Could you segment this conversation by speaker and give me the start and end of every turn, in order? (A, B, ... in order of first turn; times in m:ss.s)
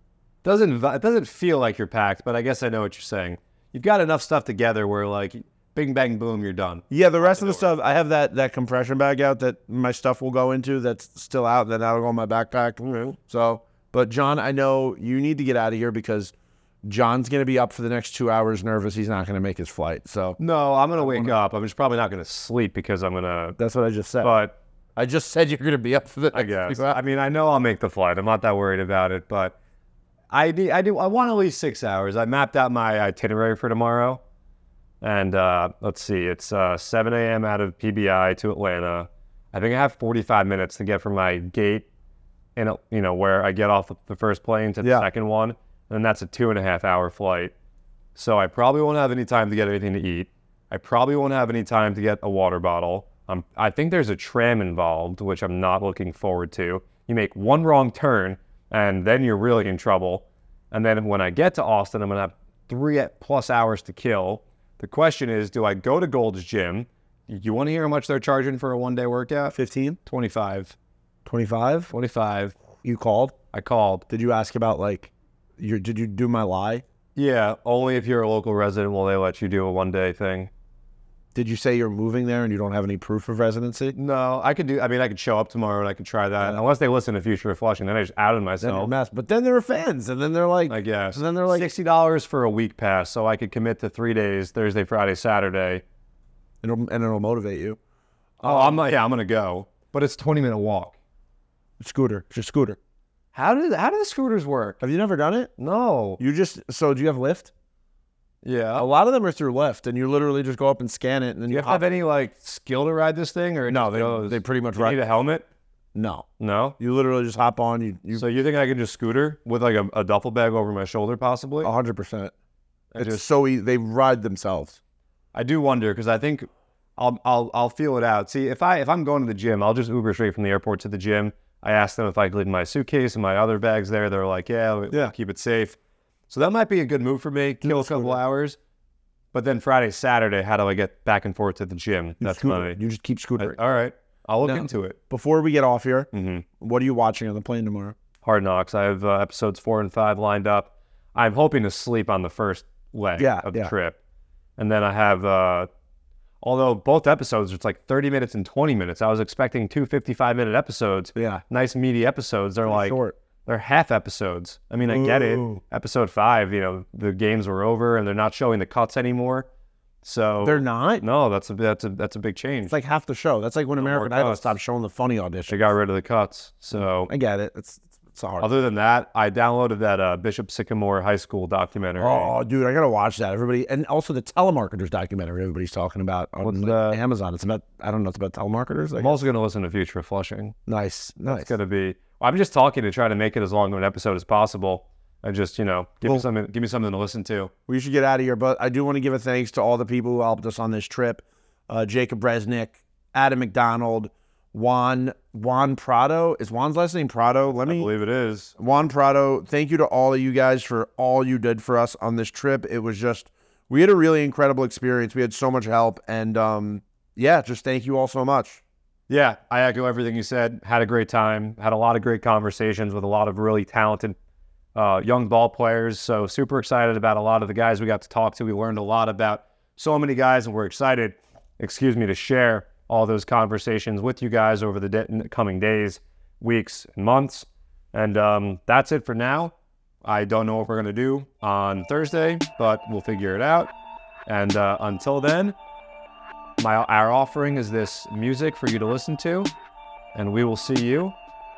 0:00.4-0:07.7 A
0:06.9-0:16.3 B
0:16.8-0:20.4 B
0:20.4-0:23.6 A
0:21.0-0:21.3 B
0:23.6-0:24.4 B
0:24.2-0:24.5 A
0:25.0-0:27.0 B
0:26.3-0:29.6 A
0:30.3-0:34.2 A
0:35.0-0:41.9 A
0:42.6-0:47.5 A
0:44.8-0:45.1 B
0:48.2-1:10.7 A
1:09.5-1:10.0 B
1:11.2-1:11.9 B
1:11.9-1:12.6 A
1:12.8-1:13.4 B
1:13.5-1:14.0 A
1:14.1-1:16.8 B
1:17.2-1:20.5 A
1:21.3-1:23.9 B
1:23.9-1:28.9 A
1:28.6-1:31.7 B
1:30.7-1:35.8 A
1:36.6-1:37.8 B
1:38.4-1:38.8 B
1:38.4-1:41.0 A
1:41.8-1:42.8 B
1:43.3-1:44.8 A
1:44.8-1:45.5 B
1:45.6-1:46.2 A
1:46.2-1:47.5 B
1:48.4-1:48.8 A
1:48.8-1:51.8 B
1:51.5-1:55.4 A
1:53.7-1:55.0 B
1:55.9-1:56.3 B
1:56.4-1:56.8 A
1:56.8-1:58.2 B
1:58.1-2:01.7 A
2:01.6-2:02.3 B
2:02.9-2:03.2 A
2:03.0-2:04.8 B
2:05.3-2:15.8 A
2:16.3-2:18.6 A
2:17.6-2:18.2 B
2:19.3-2:22.8 A
2:22.2-2:23.6 B
2:23.4-2:25.0 A
2:24.4-2:27.9 B
2:26.1-2:26.4 A
2:28.2-2:34.0 A
2:33.2-2:33.7 B
2:34.6-2:35.7 A
2:36.4-2:49.5 A
2:41.2-2:41.4 B
2:42.6-2:43.2 B
2:44.8-2:45.6 B
2:50.0-2:52.7 A
2:50.4-2:51.0 B
2:52.7-2:55.7 B
2:53.8-2:54.5 A
2:55.5-2:57.1 A
2:56.7-2:58.5 B
2:58.4-3:02.3 A
3:02.0-3:09.2 B
3:06.4-3:07.0 A
3:09.0-3:10.5 A
3:10.7-3:11.5 B
3:11.2-3:17.5 A
3:17.7-3:27.9 B
3:27.6-3:28.5 A
3:28.6-3:38.6 B
3:39.1-3:44.2 A
3:44.7-4:03.7 A
4:04.3-4:05.5 A
4:06.6-4:09.5 A
4:10.1-4:11.2 A